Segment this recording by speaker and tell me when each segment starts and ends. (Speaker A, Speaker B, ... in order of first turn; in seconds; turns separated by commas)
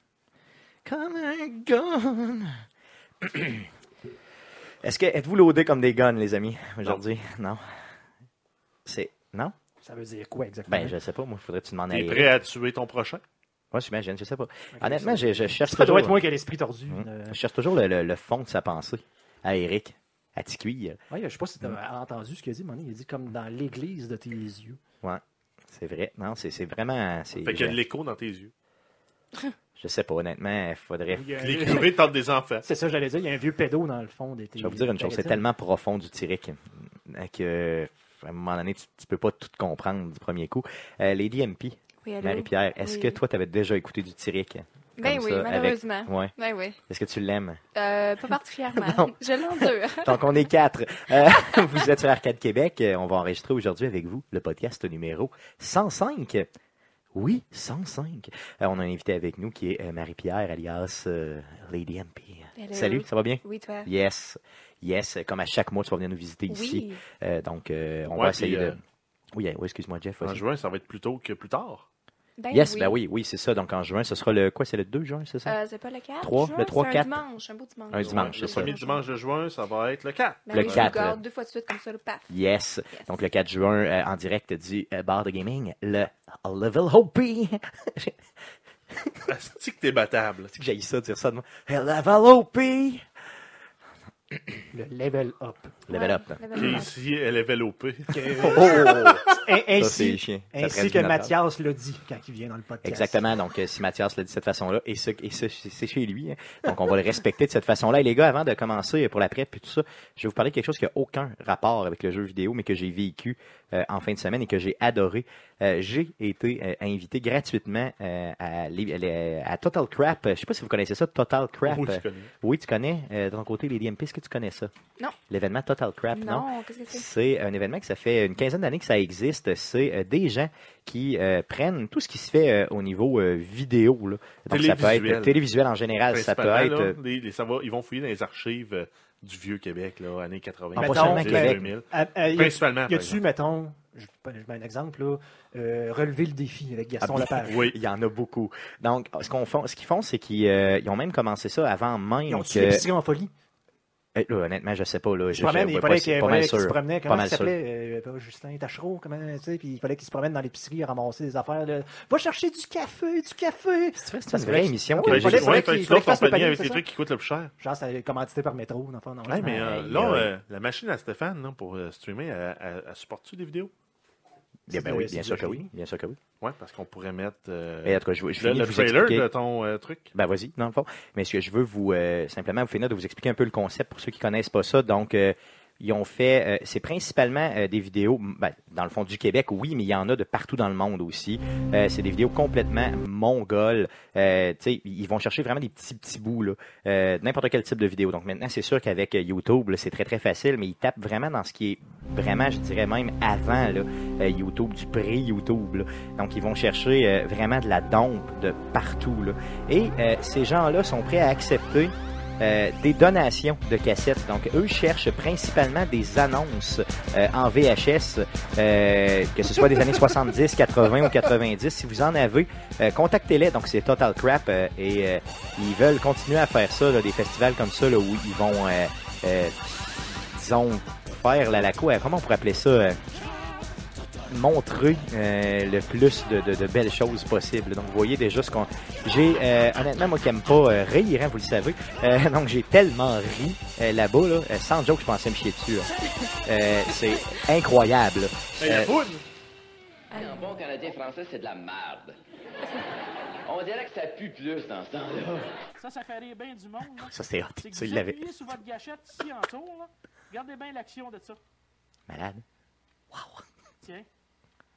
Speaker A: 0.9-2.6, Speaker A: 3.2-3.7, Speaker A: 4.8-7.6, Speaker A: 8.9-9.5, Speaker B: 9.8-11.0, Speaker A: 10.7-12.3, Speaker C: 11.9-13.2, Speaker A: 13.7-16.3, Speaker B: 14.7-17.4, Speaker A: 16.9-21.0, Speaker B: 21.1-24.8, Speaker A: 25.0-27.8, Speaker C: 27.4-28.5, Speaker A: 29.8-31.3, Speaker B: 31.1-32.0, Speaker C: 31.4-32.6, Speaker B: 32.6-35.4, Speaker A: 34.6-46.3, Speaker D: 42.0-43.2, Speaker D: 45.0-46.8, Speaker A: 46.9-47.6, Speaker D: 47.8-50.2, Speaker A: 48.7-56.5, Speaker A: 57.1-68.8, Speaker D: 62.6-63.9, Speaker D: 66.5-67.0, Speaker C: 68.1-68.8, Speaker A: 69.3-70.4, Speaker C: 70.2-71.9, Speaker D: 72.4-73.0, Speaker A: 72.5-75.6, Speaker D: 75.5-79.0, Speaker A: 76.2-77.2, Speaker A: 77.9-78.8, Speaker C: 77.9-81.0, Speaker D: 80.5-82.3, Speaker A: 80.5-81.2, Speaker A: 82.3-88.2, Speaker C: 89.3-90.5, Speaker A: 90.5-93.0, Speaker B: 94.7-95.8, Speaker A: 95.9-96.8, Speaker D: 95.9-97.0, Speaker C: 96.5-99.0, Speaker B: 98.1-103.3, Speaker A: 98.4-101.3, Speaker A: 102.8-124.7, Speaker C: 121.7-122.3, Speaker A: 125.3-137.0, Speaker D: 126.1-127.0, Speaker C: 134.5-135.4, Speaker C: 136.1-143.2, Speaker B: 140.8-147.7, Speaker A: 140.8-141.7, Speaker A: 147.0-152.9, Speaker C: 147.3-147.8, Speaker B: 152.3-153.3, Speaker A: 154.2-157.6, Speaker B: 155.3-166.8, Speaker A: 164.0-165.7, Speaker C: 165.1-167.5, Speaker B: 167.6-169.6, Speaker C: 169.3-173.7, Speaker A: 169.4-170.3, Speaker A: 174.7-176.2, Speaker B: 174.7-175.7, Speaker C: 176.4-180.1, Speaker A: 177.8-179.3, Speaker A: 180.1-233.0, Speaker A: 234.3-245.9, Speaker A: 246.5-248.9, Speaker C: 248.6-249.2, Speaker D: 250.1-250.5, Speaker E: 250.2-252.2, Speaker E: 253.5-255.4, Speaker F: 255.8-261.4, Speaker A: 256.9-258.3, Speaker A: 262.1-262.4, Speaker A: 263.1-263.4